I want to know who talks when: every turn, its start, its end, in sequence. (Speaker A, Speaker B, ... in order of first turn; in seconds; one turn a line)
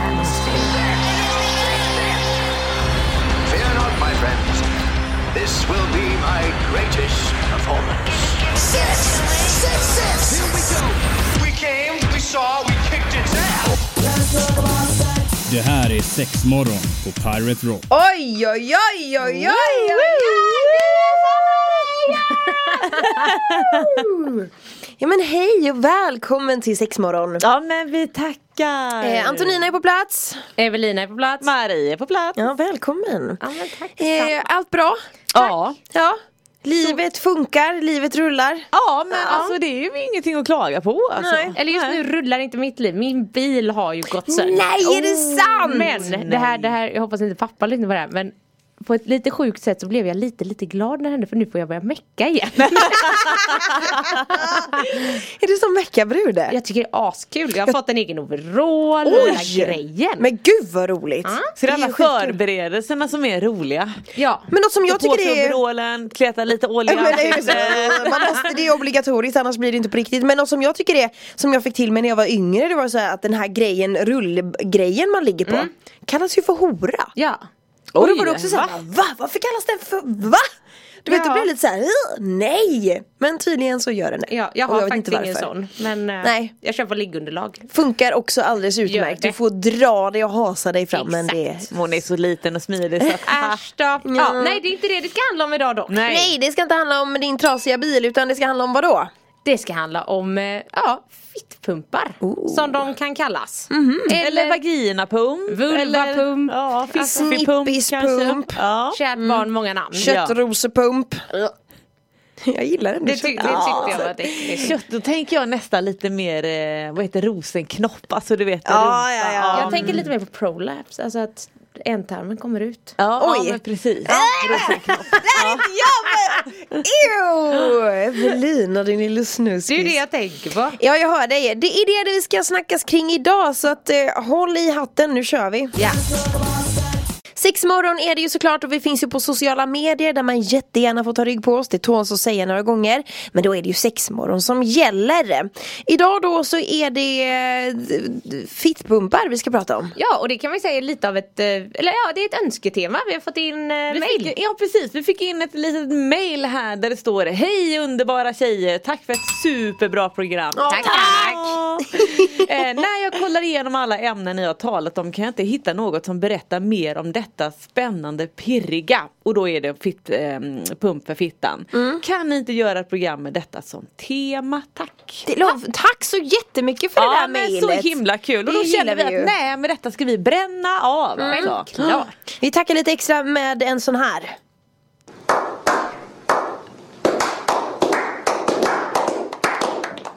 Speaker A: 0.1-0.7
Speaker B: 3.5-4.7
Speaker B: 5.3-13.8
Speaker C: 15.4-17.8
Speaker D: 17.9-24.5
Speaker E: 19.2-20.9
Speaker E: 22.9-24.0
Speaker D: 25.0-27.4
Speaker E: 27.4-29.6
Speaker D: 29.0-30.4
Speaker A: 30.6-31.5
Speaker E: 31.4-32.5
Speaker D: 32.4-33.4
Speaker A: 33.4-34.4
Speaker D: 34.0-35.0
Speaker E: 35.3-35.8
Speaker D: 35.9-39.5
Speaker E: 38.7-42.0
Speaker A: 39.3-39.5
Speaker D: 41.2-41.5
Speaker A: 41.5-44.7
Speaker D: 44.3-46.0
Speaker E: 44.8-46.7
Speaker A: 45.6-54.9
Speaker E: 52.7-53.7
Speaker D: 54.3-56.5
Speaker A: 56.5-60.3
Speaker D: 59.0-62.1
Speaker A: 61.2-61.5
Speaker E: 61.6-64.0
Speaker A: 64.1-64.5
Speaker D: 64.5-65.6
Speaker E: 64.9-68.3
Speaker D: 66.9-77.1
Speaker A: 67.2-67.8
Speaker A: 77.2-77.4
Speaker E: 77.9-78.8
Speaker D: 78.0-80.4
Speaker D: 81.0-85.5
Speaker A: 81.1-81.5
Speaker A: 84.3-87.7
Speaker D: 86.2-86.5
Speaker D: 87.7-91.7
Speaker A: 88.8-89.3
Speaker A: 90.9-91.4
Speaker E: 91.7-93.6
Speaker A: 93.2-96.0
Speaker D: 94.0-94.6
Speaker E: 95.9-96.3
Speaker D: 96.1-99.1
Speaker A: 99.4-104.6
Speaker D: 102.2-102.9
Speaker D: 103.7-104.2
Speaker E: 104.1-109.0
Speaker A: 105.5-107.3
Speaker D: 106.9-108.6
Speaker A: 108.9-110.2
Speaker D: 109.2-111.5
Speaker E: 110.0-110.3
Speaker D: 112.4-114.7
Speaker A: 113.0-114.8
Speaker E: 113.4-120.1
Speaker D: 118.6-120.0
Speaker A: 119.5-123.0
Speaker E: 123.0-125.7
Speaker D: 123.2-130.0
Speaker A: 124.1-125.7
Speaker A: 129.7-130.8
Speaker D: 130.8-135.7
Speaker A: 135.8-136.0
Speaker D: 137.4-149.9
Speaker A: 149.9-154.3
Speaker E: 153.9-175.3
Speaker D: 160.6-162.3
Speaker A: 160.7-161.5
Speaker D: 171.7-172.0
Speaker D: 175.2-177.9
Speaker E: 177.0-182.0
Speaker D: 178.4-179.3
Speaker D: 181.2-181.5
Speaker A: 181.2-182.1
Speaker D: 182.4-184.3